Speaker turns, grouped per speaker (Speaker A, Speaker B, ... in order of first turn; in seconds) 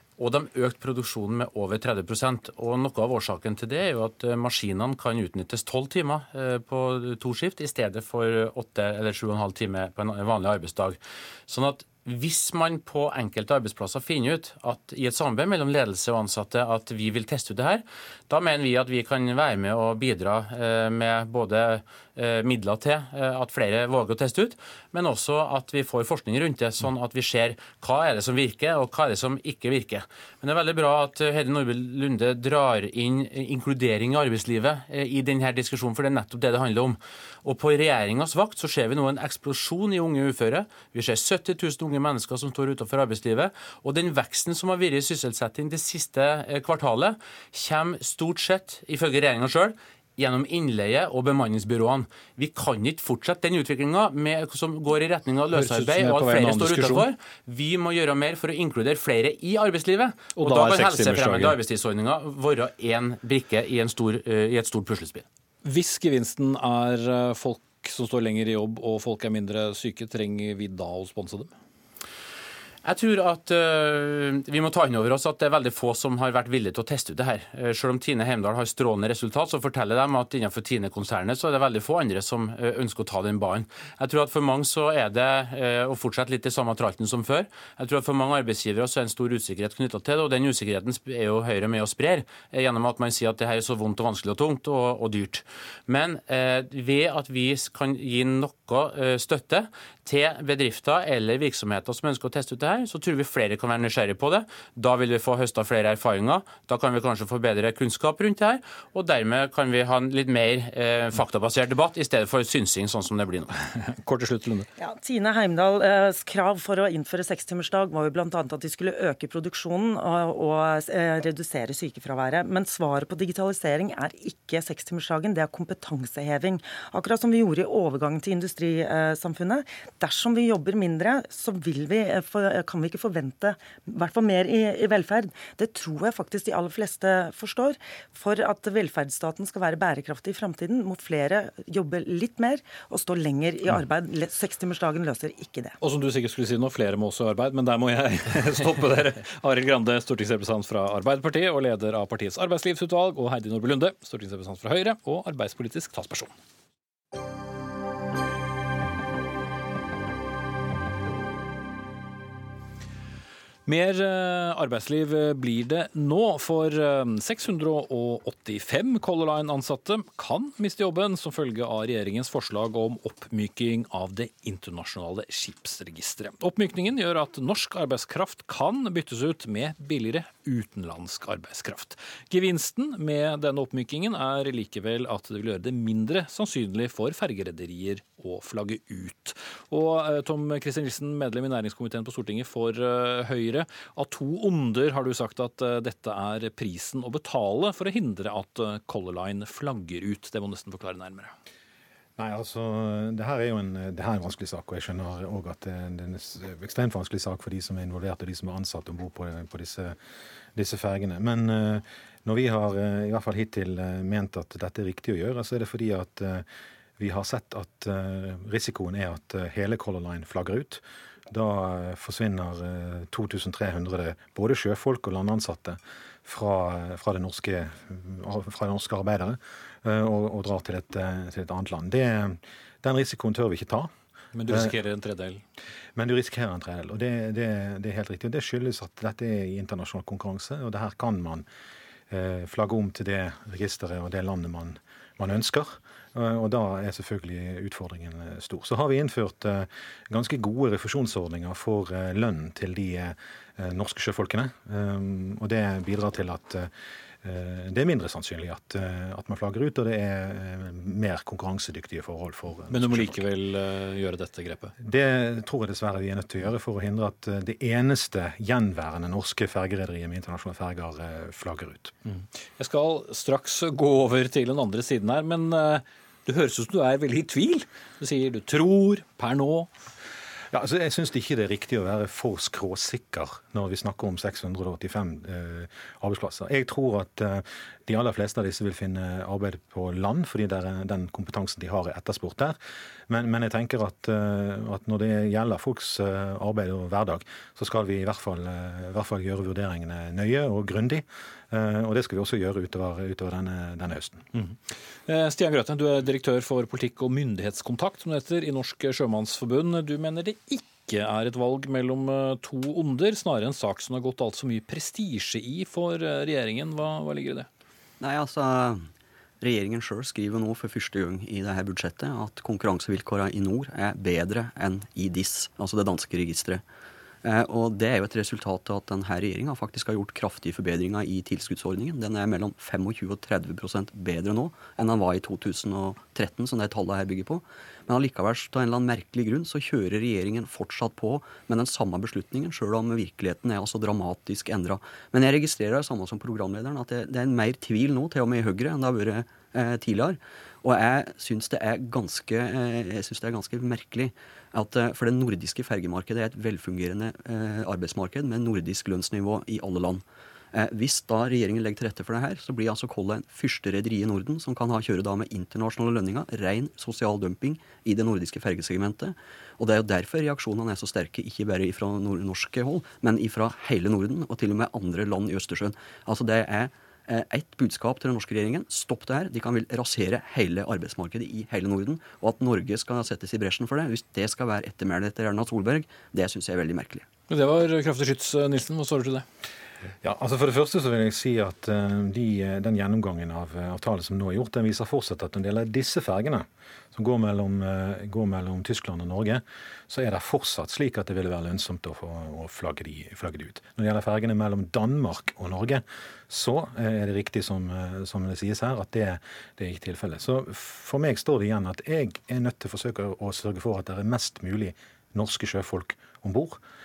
Speaker A: 0.2-65.2, 72.8-113.5
Speaker B: 55.5-57.1, 60.4-61.6, 65.6-71.5, 113.9-114.7, 145.8-156.3, 163.7-201.3, 234.3-235.4, 262.7-264.7, 272.1-279.7, 305.1-317.5, 387.3-389.2
Speaker C: 114.8-145.8
Speaker D: 202.2-210.0, 210.6-216.4, 217.0-233.9, 234.5-234.7, 235.9-241.4, 242.1-256.7, 257.2-263.2, 264.8-271.9, 280.5-292.6, 293.1-304.2, 390.0-416.6
Speaker E: 318.0-318.9, 319.4-326.6, 327.2-387.1